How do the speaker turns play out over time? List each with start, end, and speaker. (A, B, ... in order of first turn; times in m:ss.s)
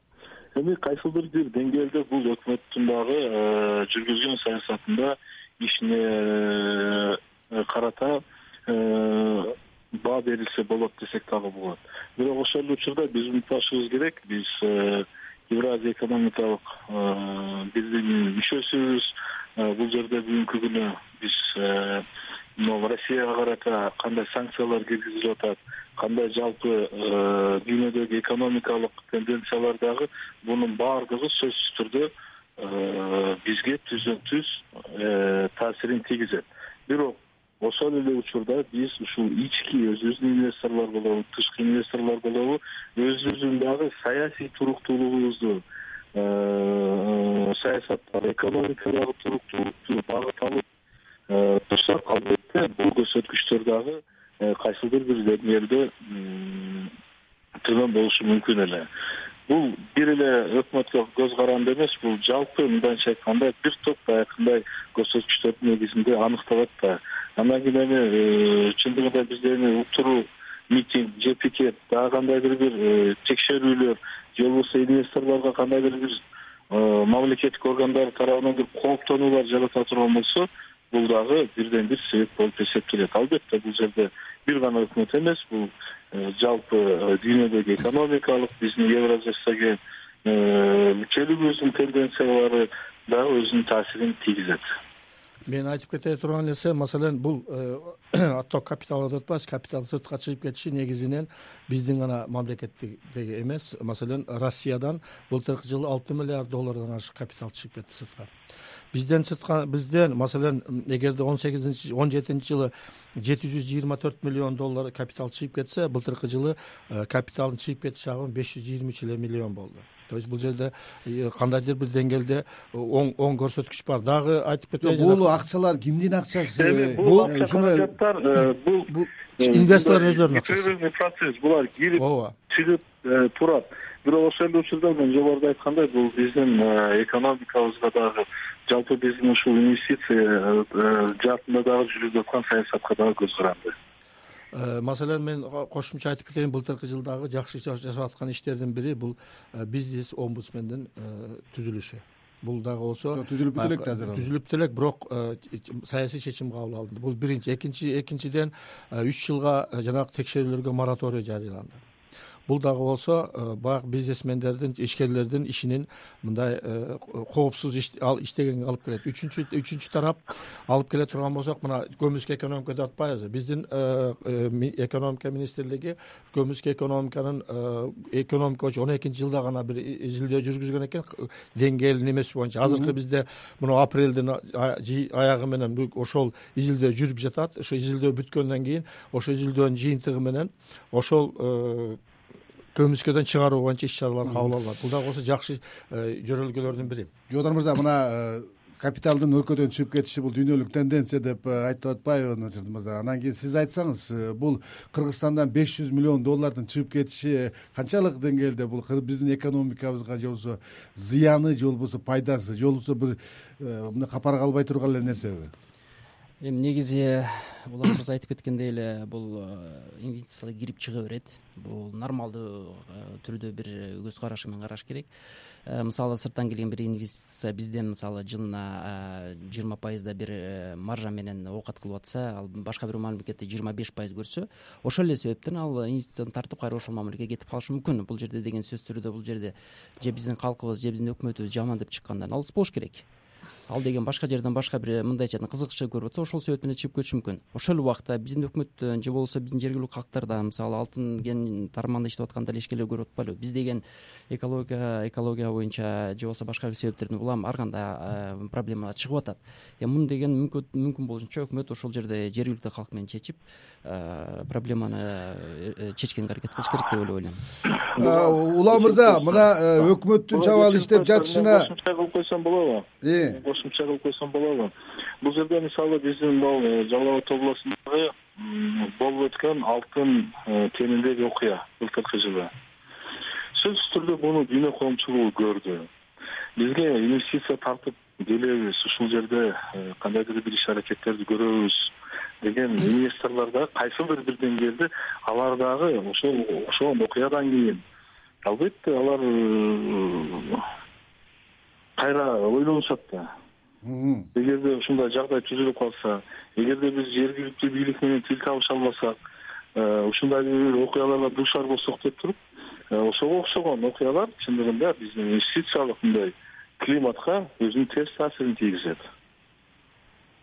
0:00.6-0:22.0 A
0:22.6-0:45.6 A
0:46.1-0:50.6 A
0:51.3-0:56.9 A
0:57.6-0:58.9 A
0:59.5-1:16.2 A
1:16.7-1:34.6 A
1:35.5-1:48.3 B
1:48.9-2:05.3 B
2:04.8-2:07.9 C
2:06.5-2:23.7 A
2:08.9-2:10.7 B
2:12.0-2:12.4 B
2:24.5-2:41.8 B
2:33.1-2:34.3 C
2:42.5-3:12.0 B
3:02.6-3:02.9 C
3:12.7-3:17.1 B
3:17.3-3:35.5 C
3:36.4-3:45.1 D
3:45.7-4:03.0 D
4:03.7-4:27.4 D
4:27.8-4:42.5 A
4:27.9-4:31.7 C
4:33.0-4:33.4 C
4:43.6-4:45.9 A
4:46.6-4:51.9 A
4:52.4-4:57.8 A
4:58.4-5:00.7 A
5:02.0-5:03.3 A
5:03.8-5:04.3 C
5:04.4-5:09.2 A
5:09.8-5:12.4 A
5:12.9-5:19.0 A